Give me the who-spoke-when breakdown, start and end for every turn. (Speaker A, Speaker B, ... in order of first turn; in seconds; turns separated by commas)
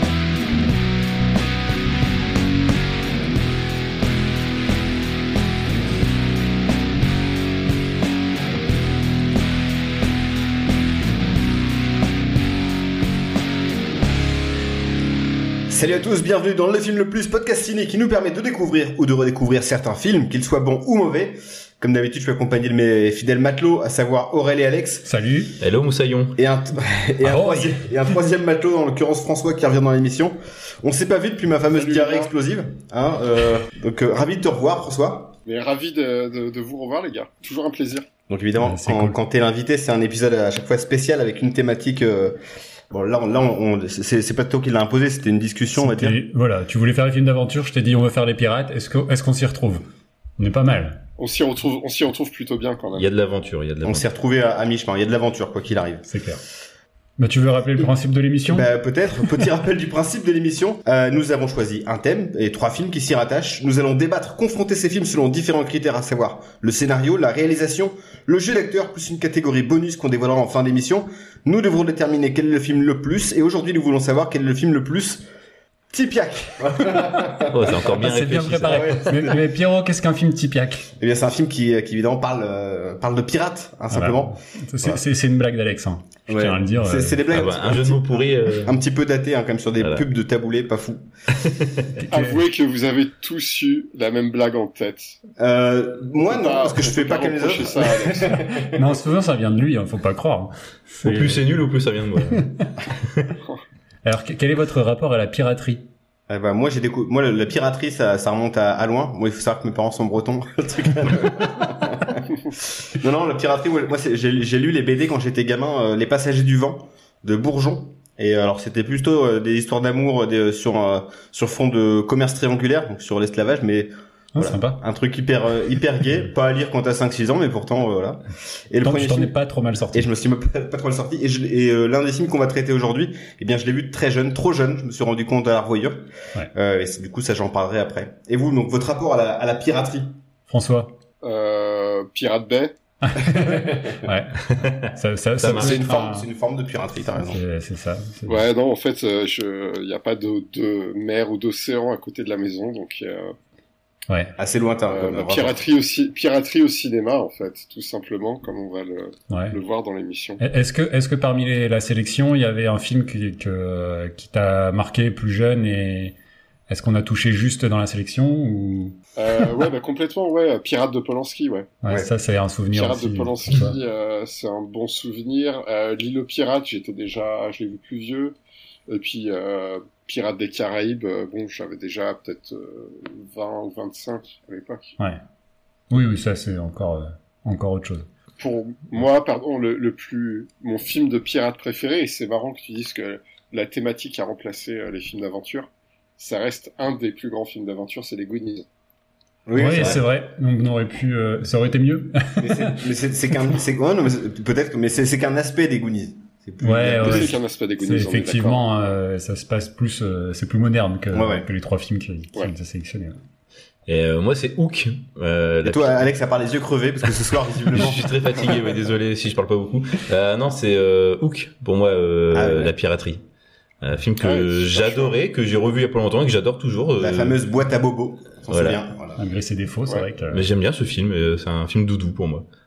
Speaker A: 15.7-25.1, Speaker B: 25.0-25.5, Speaker C: 25.6-26.4, Speaker A: 26.4-35.4, Speaker B: 27.2-27.9, Speaker D: 31.7-32.3, Speaker D: 35.5-38.1, Speaker A: 38.3-42.4, Speaker B: 38.6-39.2, Speaker A: 42.9-46.2, Speaker B: 45.8-49.8, Speaker B: 50.4-51.0, Speaker D: 51.2-53.1, Speaker C: 52.9-54.0, Speaker A: 53.8-56.1, Speaker B: 56.1-56.4, Speaker B: 57.2-58.7, Speaker A: 58.5-75.2, Speaker A: 75.9-77.7, Speaker C: 77.4-79.0, Speaker B: 77.8-80.9, Speaker A: 78.7-79.4, Speaker A: 81.0-85.0, Speaker B: 83.9-87.2, Speaker A: 86.3-91.0, Speaker C: 87.3-88.8, Speaker C: 89.8-90.0, Speaker C: 91.3-91.9, Speaker B: 92.0-92.4, Speaker D: 92.1-95.2, Speaker A: 95.4-98.8, Speaker D: 96.3-98.4, Speaker B: 98.6-101.5, Speaker C: 101.0-103.3, Speaker B: 102.2-102.7, Speaker B: 104.0-105.8, Speaker A: 106.3-129.3, Speaker B: 124.3-124.8, Speaker B: 128.8-130.1, Speaker A: 129.9-140.1, Speaker B: 140.5-140.9, Speaker D: 141.2-142.8, Speaker B: 143.0-146.3, Speaker A: 143.3-144.0, Speaker C: 144.5-145.8, Speaker A: 145.4-147.4, Speaker B: 147.1-148.4, Speaker D: 148.3-153.3, Speaker B: 154.1-154.3, Speaker A: 154.4-155.7, Speaker D: 154.9-160.4, Speaker B: 159.3-159.6, Speaker B: 160.4-166.1, Speaker B: 166.7-168.9, Speaker D: 169.2-171.7, Speaker B: 171.8-173.8, Speaker D: 172.7-178.4, Speaker D: 178.9-184.9, Speaker B: 185.9-188.1, Speaker D: 188.4-198.7, Speaker A: 199.5-200.0, Speaker B: 199.6-202.8, Speaker A: 202.4-207.3, Speaker B: 206.6-213.2, Speaker D: 207.0-208.7, Speaker A: 211.1-211.5, Speaker C: 213.9-216.1, Speaker A: 215.6-218.6, Speaker C: 217.7-223.2, Speaker A: 222.3-222.7, Speaker C: 223.8-227.4, Speaker D: 224.2-225.2, Speaker A: 227.0-229.2, Speaker C: 228.5-228.8, Speaker B: 229.2-230.4, Speaker C: 230.3-232.4